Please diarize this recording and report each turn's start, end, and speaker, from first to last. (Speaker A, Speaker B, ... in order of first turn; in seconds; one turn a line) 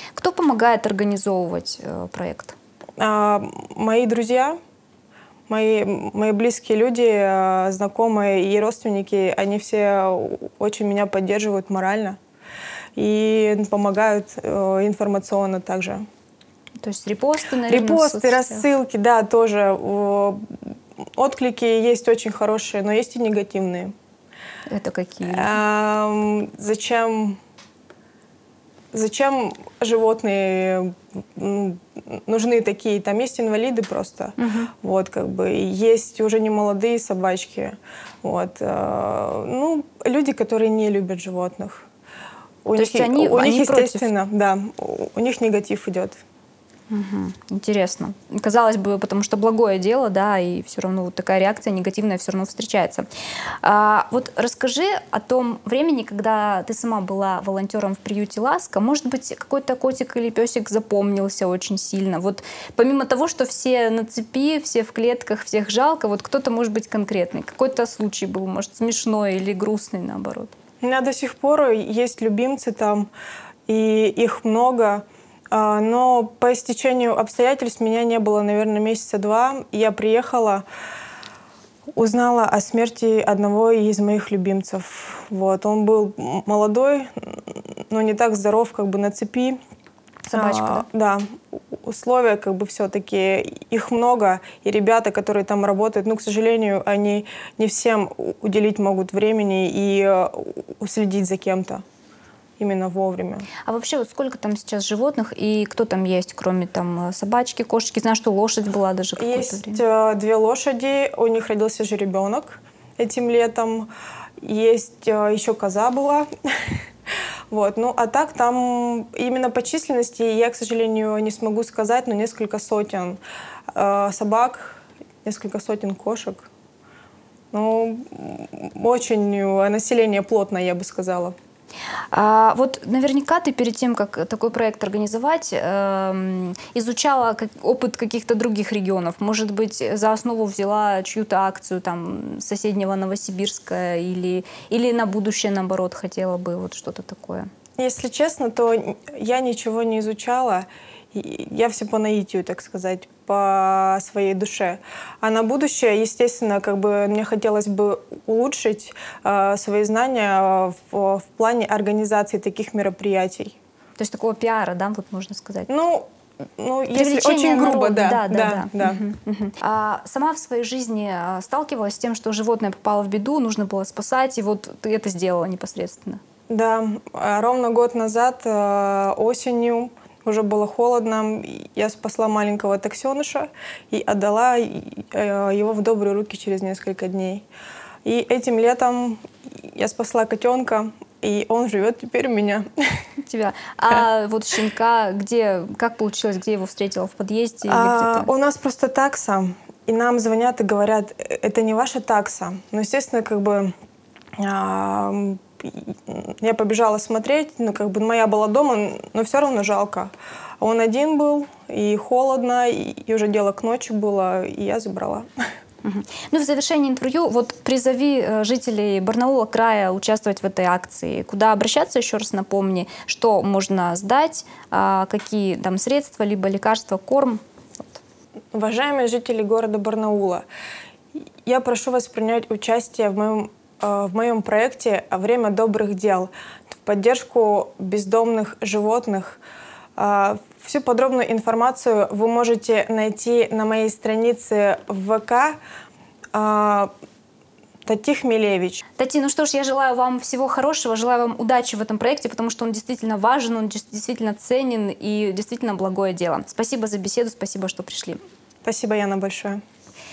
Speaker A: 0.1-2.5
Speaker B: 3.0-4.6
Speaker B: 5.5-12.2
Speaker B: 12.9-16.0
Speaker A: 16.8-18.6
Speaker B: 17.6-20.5
Speaker B: 21.2-23.9
Speaker A: 24.7-25.6
Speaker B: 25.3-27.4
Speaker B: 28.9-41.9
Speaker A: 34.4-34.7
Speaker B: 42.6-46.2
Speaker A: 42.7-44.1
Speaker A: 46.9-53.1
Speaker A: 53.6-70.5
Speaker B: 70.8-73.1
Speaker B: 73.7-80.6
Speaker B: 82.0-89.6
Speaker A: 90.3-90.8
Speaker B: 90.3-101.8
Speaker B: 102.6-103.5
Speaker A: 103.6-109.8
Speaker B: 109.2-116.8
Speaker B: 117.5-123.2
Speaker B: 123.7-126.5
Speaker B: 127.5-131.3
Speaker A: 132.1-147.5
Speaker B: 147.8-163.6
Speaker A: 164.0-165.7
Speaker B: 165.7-166.1
Speaker B: 166.6-169.0
Speaker A: 166.9-176.2
Speaker B: 176.5-187.4
Speaker B: 188.0-192.7
Speaker A: 193.2-198.3
Speaker B: 197.7-203.7
Speaker B: 204.4-215.3
Speaker A: 215.8-228.0
Speaker B: 228.5-230.4
Speaker B: 231.4-239.4
Speaker B: 240.0-245.6
Speaker B: 246.3-246.9
Speaker B: 247.8-248.8
Speaker A: 249.0-258.2
Speaker B: 258.6-259.6